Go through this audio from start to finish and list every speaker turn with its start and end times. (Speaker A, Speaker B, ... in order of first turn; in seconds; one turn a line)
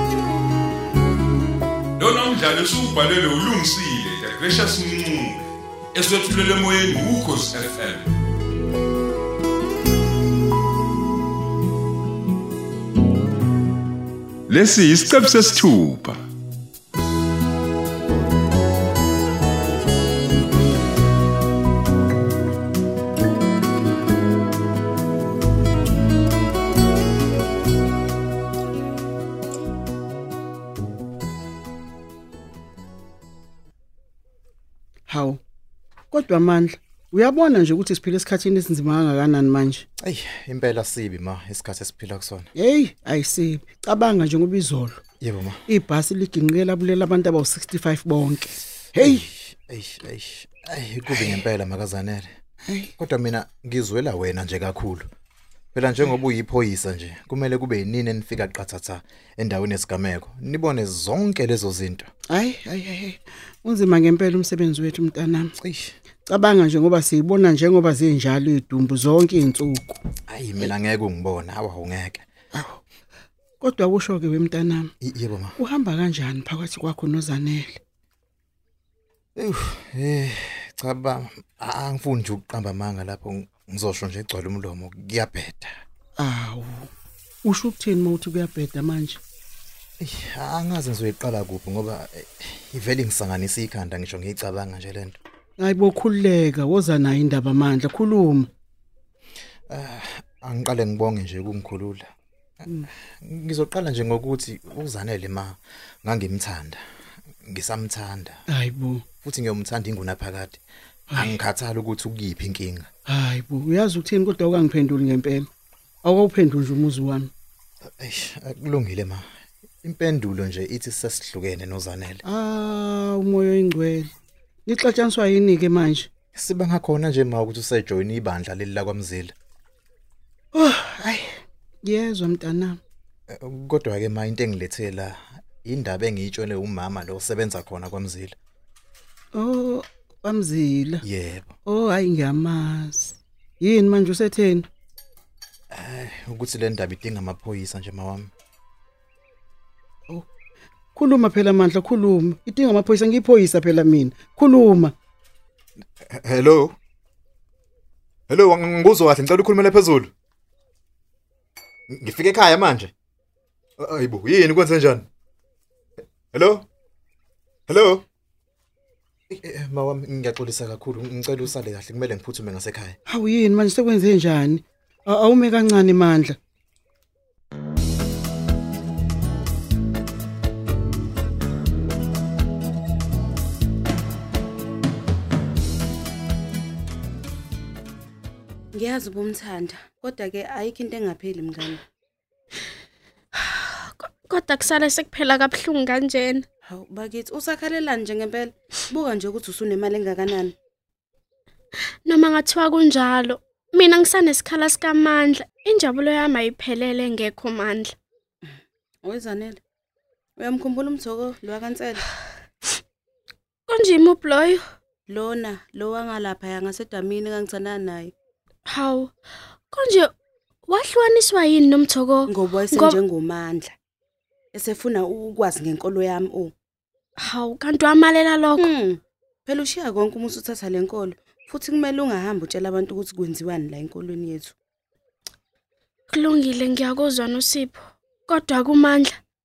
Speaker A: 2.0-5.4
Speaker A: 6.0-8.1
Speaker A: 14.5-16.2
Speaker B: 35.1-35.4
Speaker B: 36.1-39.9
Speaker C: 40.0-42.5
Speaker B: 42.6-45.0
Speaker C: 45.2-45.6
Speaker B: 45.7-49.2
Speaker C: 49.0-52.3
Speaker B: 52.7-52.9
Speaker C: 53.0-55.1
Speaker C: 55.7-62.1
Speaker B: 62.3-65.5
Speaker C: 65.6-65.9
Speaker B: 66.3-70.0
Speaker C: 70.3-72.2
Speaker B: 72.5-72.8
Speaker B: 73.6-74.9
Speaker C: 75.0-75.6
Speaker B: 75.6-77.8
Speaker C: 79.4-85.7
Speaker B: 86.2-86.9
Speaker B: 87.4-89.2
Speaker C: 90.0-95.2
Speaker B: 95.6-98.5
Speaker C: 99.7-102.1
Speaker C: 103.2-106.8
Speaker C: 107.5-108.4
Speaker B: 108.5-109.0
Speaker C: 109.2-110.6
Speaker C: 111.1-112.9
Speaker B: 113.1-115.5
Speaker B: 116.0-117.3
Speaker C: 117.9-119.2
Speaker C: 119.8-122.2
Speaker B: 122.2-124.1
Speaker B: 124.7-126.1
Speaker C: 126.3-129.3
Speaker B: 130.5-132.8
Speaker C: 133.3-138.3
Speaker B: 139.3-141.0
Speaker C: 141.0-141.5
Speaker B: 141.7-144.7
Speaker C: 145.7-148.3
Speaker B: 150.9-154.9
Speaker C: 156.1-156.8
Speaker C: 158.3-160.1
Speaker C: 161.9-162.9
Speaker C: 163.8-165.1
Speaker C: 166.3-166.7
Speaker C: 167.7-168.0
Speaker C: 169.3-173.0
Speaker B: 173.1-176.4
Speaker D: 188.7-191.8
Speaker E: 193.4-196.5
Speaker D: 196.7-200.5
Speaker E: 202.1-207.9
Speaker D: 209.0-209.6
Speaker D: 210.4-212.0
Speaker E: 213.7-214.6
Speaker D: 215.1-218.1
Speaker E: 218.7-219.1
Speaker E: 219.7-220.1
Speaker E: 220.7-223.0
Speaker D: 222.3-223.8
Speaker D: 224.5-226.5
Speaker E: 227.2-228.7
Speaker D: 228.6-234.6
Speaker E: 236.1-239.2